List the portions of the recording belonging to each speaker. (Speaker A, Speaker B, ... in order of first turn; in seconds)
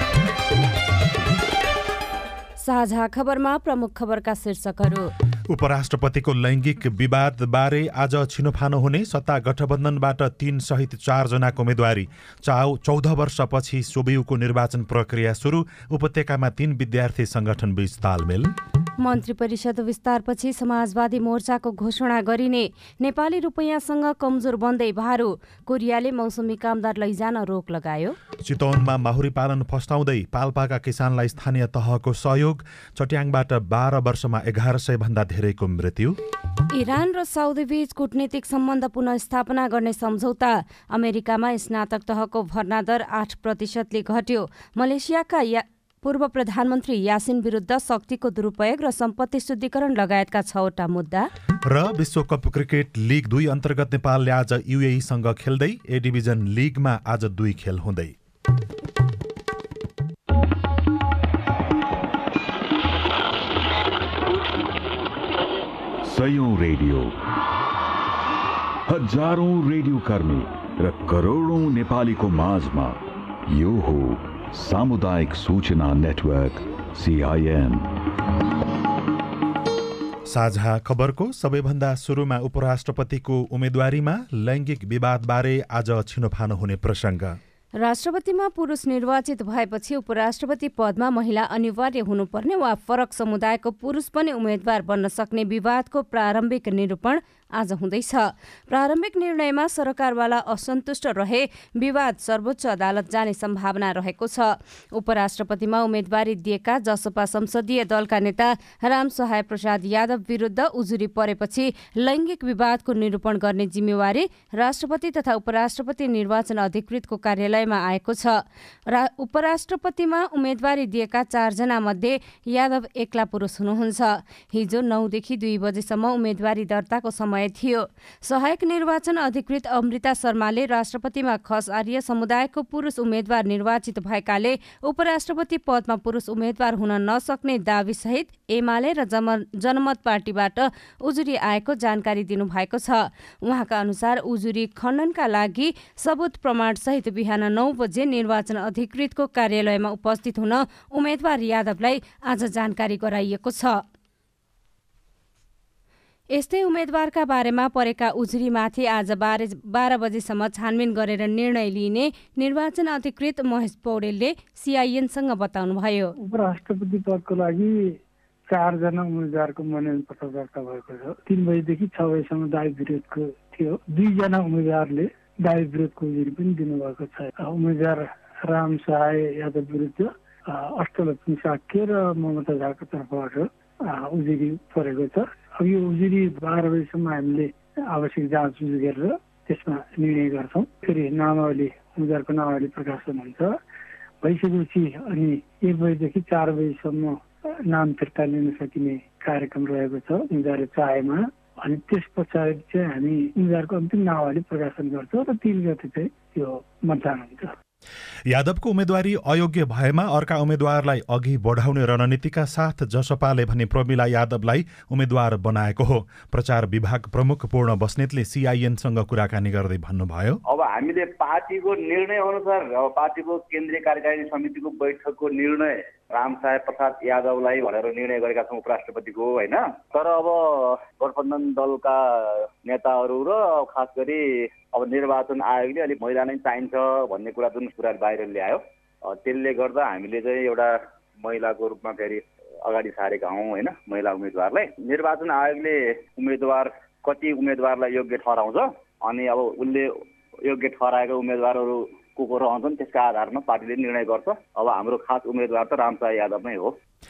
Speaker A: 2.6-5.1, 19.0-28.2, 36.7-51.3, 87.8-153.8, 156.3-166.1
Speaker B: 5.5-18.5, 28.4-36.2, 51.7-58.1, 80.3-87.4, 208.3-220.4
Speaker C: 66.0-67.2, 68.9-77.9
Speaker D: 166.2-167.9, 168.5-193.5, 194.2-207.5
Speaker E: 220.5-249.9, 250.4-256.7